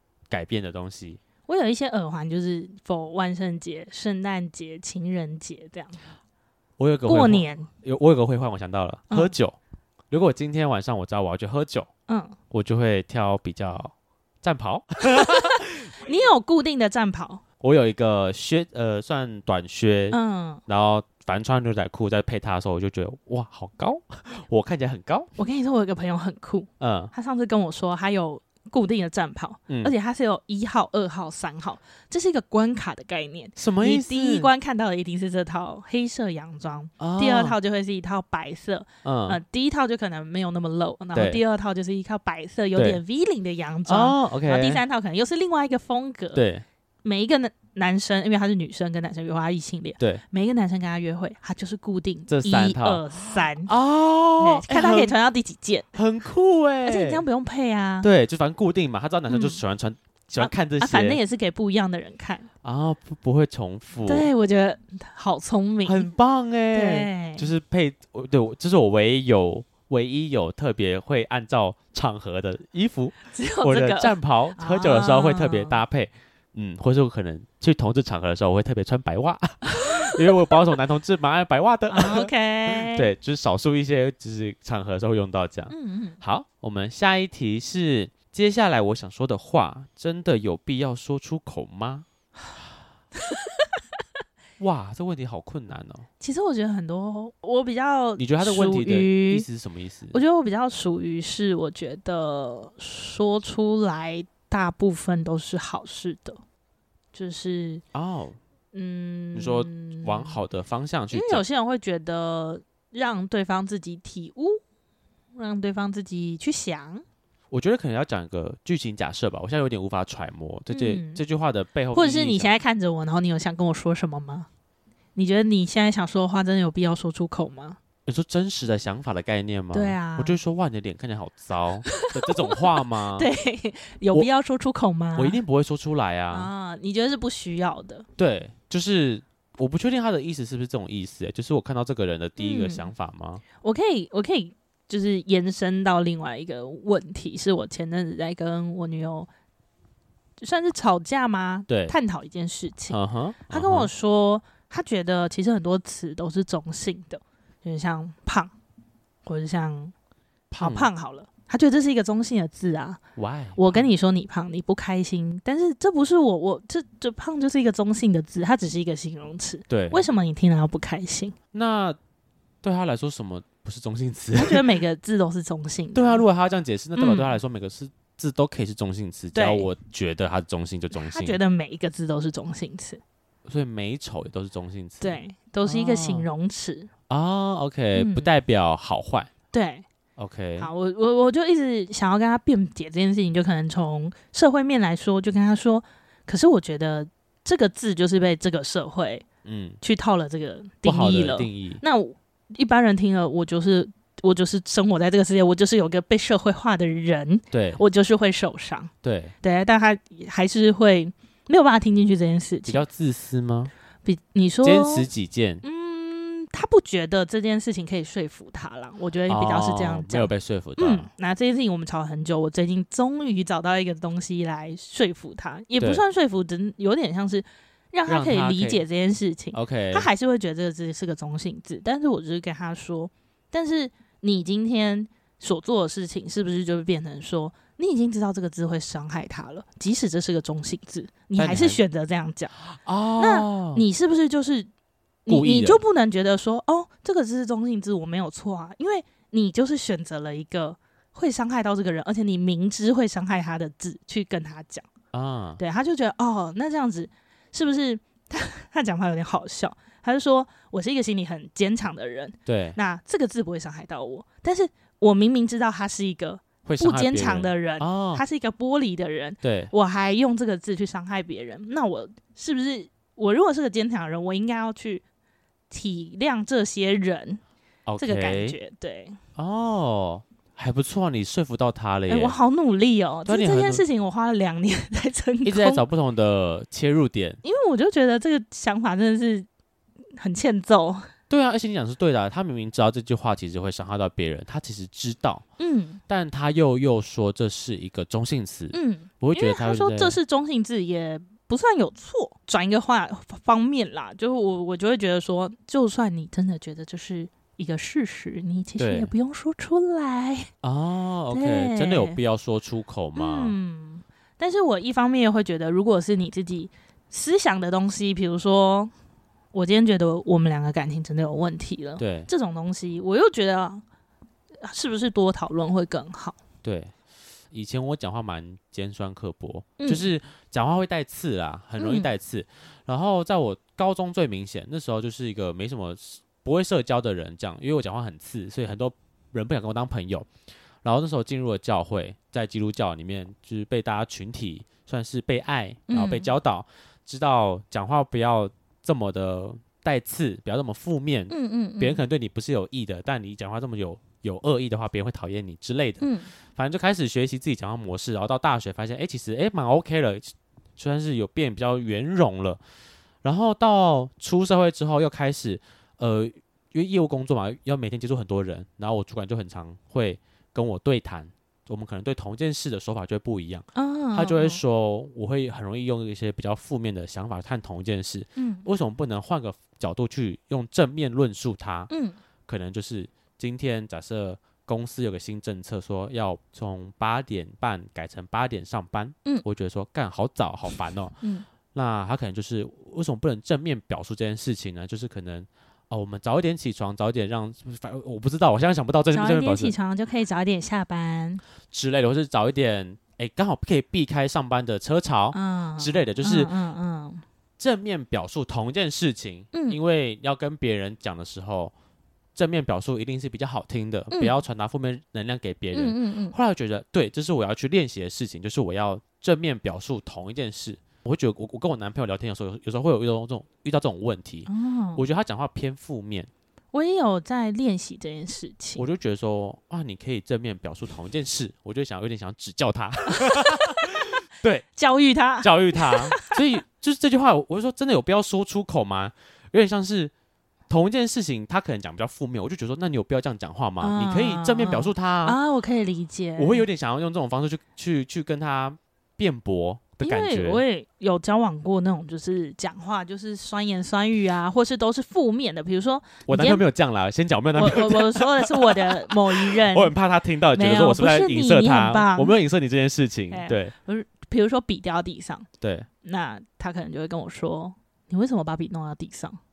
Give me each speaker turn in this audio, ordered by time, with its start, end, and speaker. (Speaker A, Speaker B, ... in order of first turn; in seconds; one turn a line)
Speaker A: 0.3-1.2
Speaker B: 1.5-6.0
Speaker A: 6.8-9.6
Speaker B: 7.1-7.7
Speaker A: 10.1-11.9
Speaker B: 12.1-12.4
Speaker A: 12.5-15.9
Speaker B: 15.1-17.4
Speaker A: 17.6-25.3
Speaker B: 20.1-20.6
Speaker B: 25.4-46.4
Speaker A: 26.8-27.1
Speaker A: 33.6-34.5
Speaker A: 37.0-37.6
Speaker A: 39.0-39.4
Speaker A: 41.1-41.4
Speaker A: 42.8-43.0
Speaker A: 43.9-44.8
Speaker A: 46.3-46.6
Speaker B: 47.0-53.7
Speaker A: 52.3-55.1
Speaker B: 54.4-55.9
Speaker A: 55.9-57.2
Speaker B: 56.9-58.1
Speaker A: 58.0-61.2
Speaker B: 59.3-59.6
Speaker B: 60.4-62.5
Speaker A: 62.6-64.3
Speaker B: 64.1-66.1
Speaker A: 65.8-92.1
Speaker B: 66.7-67.5
Speaker B: 73.3-75.8
Speaker B: 79.7-80.5
Speaker B: 81.9-83.1
Speaker B: 85.7-86.2
Speaker B: 93.2-93.5
Speaker A: 94.6-96.1
Speaker B: 96.2-99.5
Speaker A: 98.2-100.2
Speaker B: 100.1-106.4
Speaker B: 107.1-107.8
Speaker A: 107.9-108.4
Speaker B: 108.7-110.4
Speaker A: 109.3-111.4
Speaker B: 111.1-114.6
Speaker B: 115.3-117.0
Speaker A: 117.5-122.5
Speaker B: 120.7-121.2
Speaker B: 121.9-124.5
Speaker B: 125.2-127.8
Speaker A: 128.1-133.3
Speaker B: 129.7-130.4
Speaker B: 131.9-135.4
Speaker A: 135.2-136.5
Speaker B: 136.3-138.1
Speaker A: 138.2-143.4
Speaker B: 142.4-142.9
Speaker B: 143.6-149.3
Speaker B: 150.4-153.0
Speaker A: 151.7-151.9
Speaker A: 152.9-153.9
Speaker B: 153.5-158.5
Speaker B: 159.3-159.9
Speaker A: 160.5-160.9
Speaker B: 160.6-163.0
Speaker A: 163.2-163.9
Speaker B: 163.6-171.3
Speaker A: 169.7-170.1
Speaker A: 171.5-172.0
Speaker A: 172.6-174.6
Speaker B: 174.3-176.2
Speaker A: 175.9-181.4
Speaker B: 177.0-177.4
Speaker B: 179.3-179.7
Speaker B: 180.9-183.0
Speaker A: 183.4-186.3
Speaker B: 185.0-186.9
Speaker A: 187.1-189.3
Speaker B: 187.9-188.3
Speaker B: 189.5-189.8
Speaker A: 190.2-190.7
Speaker B: 190.6-199.2
Speaker A: 199.4-199.8
Speaker B: 199.8-208.9
Speaker A: 200.8-201.8
Speaker A: 207.5-207.8
Speaker A: 209.0-209.3
Speaker B: 209.4-212.8
Speaker A: 212.7-213.7
Speaker B: 214.1-215.1
Speaker A: 214.6-215.6
Speaker B: 215.6-242.6
Speaker A: 219.3-221.1
Speaker A: 228.1-228.8
Speaker A: 229.5-230.1
Speaker A: 241.4-241.8
Speaker A: 242.7-243.9
Speaker B: 243.2-244.7
Speaker B: 245.3-254.9
Speaker A: 245.3-245.8
Speaker A: 255.1-255.6
Speaker B: 255.6-275.0
Speaker A: 262.5-262.8
Speaker A: 266.6-268.2
Speaker A: 269.4-269.7
Speaker B: 275.7-277.4
Speaker A: 277.9-278.6
Speaker B: 278.0-279.2
Speaker A: 279.4-282.4
Speaker B: 282.1-285.9
Speaker A: 283.3-283.8
Speaker A: 285.4-287.4
Speaker B: 287.4-289.5
Speaker B: 290.2-291.1
Speaker A: 291.3-295.4
Speaker B: 295.6-296.0
Speaker A: 296.1-300.2
Speaker B: 298.7-310.5
Speaker A: 308.8-309.1
Speaker A: 310.6-313.6
Speaker B: 311.3-312.2
Speaker B: 313.2-318.9
Speaker B: 319.5-323.8
Speaker A: 322.0-322.3
Speaker B: 324.6-326.4
Speaker A: 326.6-326.9
Speaker A: 327.5-340.3
Speaker B: 329.8-330.1
Speaker B: 331.8-332.1
Speaker A: 340.8-362.6
Speaker B: 345.9-346.3
Speaker B: 351.3-352.0
Speaker B: 356.0-356.3
Speaker A: 363.2-381.9
Speaker B: 373.8-374.6
Speaker B: 378.4-378.7
Speaker B: 381.9-382.2
Speaker A: 382.5-391.2
Speaker B: 391.2-391.5
Speaker A: 391.7-399.8
Speaker B: 399.1-401.4
Speaker A: 401.7-406.5
Speaker B: 405.3-407.2
Speaker A: 407.6-411.7
Speaker B: 409.5-409.8
Speaker A: 412.4-426.3
Speaker B: 414.1-414.4
Speaker B: 415.7-416.4
Speaker B: 424.5-425.1
Speaker B: 426.7-428.9
Speaker A: 428.8-434.7
Speaker B: 433.2-433.8
Speaker B: 434.8-436.4
Speaker A: 435.4-440.1
Speaker A: 440.7-445.4
Speaker B: 443.8-446.7
Speaker A: 446.4-450.6
Speaker B: 450.0-456.6
Speaker A: 456.3-463.7
Speaker B: 457.6-459.9
Speaker B: 460.5-462.4
Speaker B: 463.3-465.5
Speaker A: 465.6-465.9
Speaker B: 466.0-469.4